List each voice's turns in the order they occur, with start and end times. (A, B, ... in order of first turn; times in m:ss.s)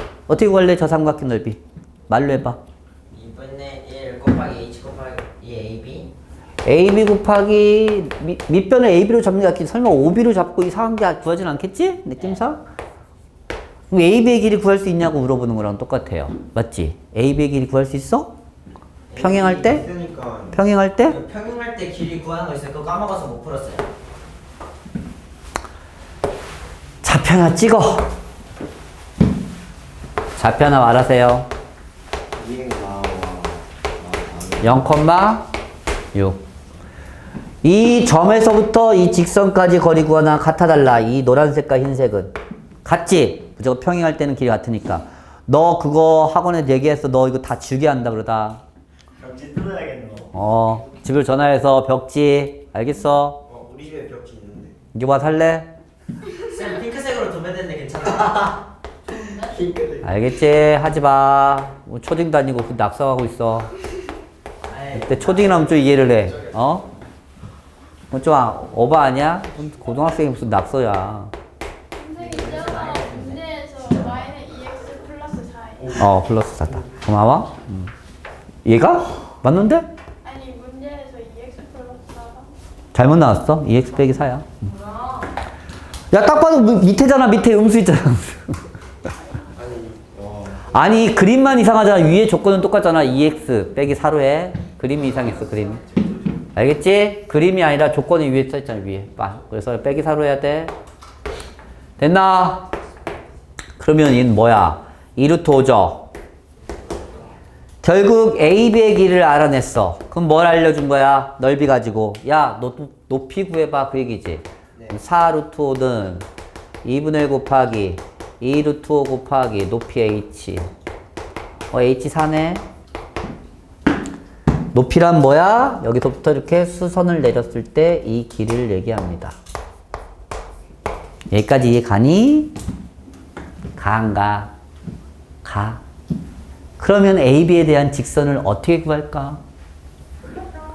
0:00.3-0:02.6 A
0:03.1-0:06.1 B
0:06.6-0:12.6 A
0:13.9-0:18.4 A
0:19.1-0:20.0 B
0:19.2-0:19.9 A
0:19.6-0:20.5 C
0:20.5-0:21.2 A
0:21.0-0:23.9 B
0:27.0-0:28.1 A
0:30.4-0:31.5 A
0:32.3-0:34.8 C
0:34.6-0:35.5 A
0:36.1-0:36.4 A
0:37.6-0:48.6 A
0:49.2-0:50.3 C
0:50.3-0:53.4 A
0:53.4-0:54.8 C
0:54.9-0:55.7 A
0:56.4-0:58.6 B
0:59.2-1:00.1 C
1:00.0-1:03.7 A
1:04.6-1:05.8 B
1:04.9-1:06.9 A
1:08.1-1:11.3 A
1:11.9-1:16.0 D
1:12.2-1:14.2 B
1:15.9-1:17.9 A
1:18.6-1:19.9 A
1:20.2-1:22.5 D
1:22.9-1:24.7 A
1:26.1-1:28.6 A
1:29.5-1:30.7 C
1:30.7-1:35.8 A
1:36.5-1:40.7 A
1:42.0-1:42.7 A
1:43.8-1:46.1 A
1:47.8-1:56.3 A
1:56.8-2:00.7 A
2:01.7-2:02.6 A
2:04.7-2:09.4 A
2:11.3-2:12.5 A
2:13.8-2:14.5 A
2:15.4-2:15.8 A
2:16.8-2:19.4 A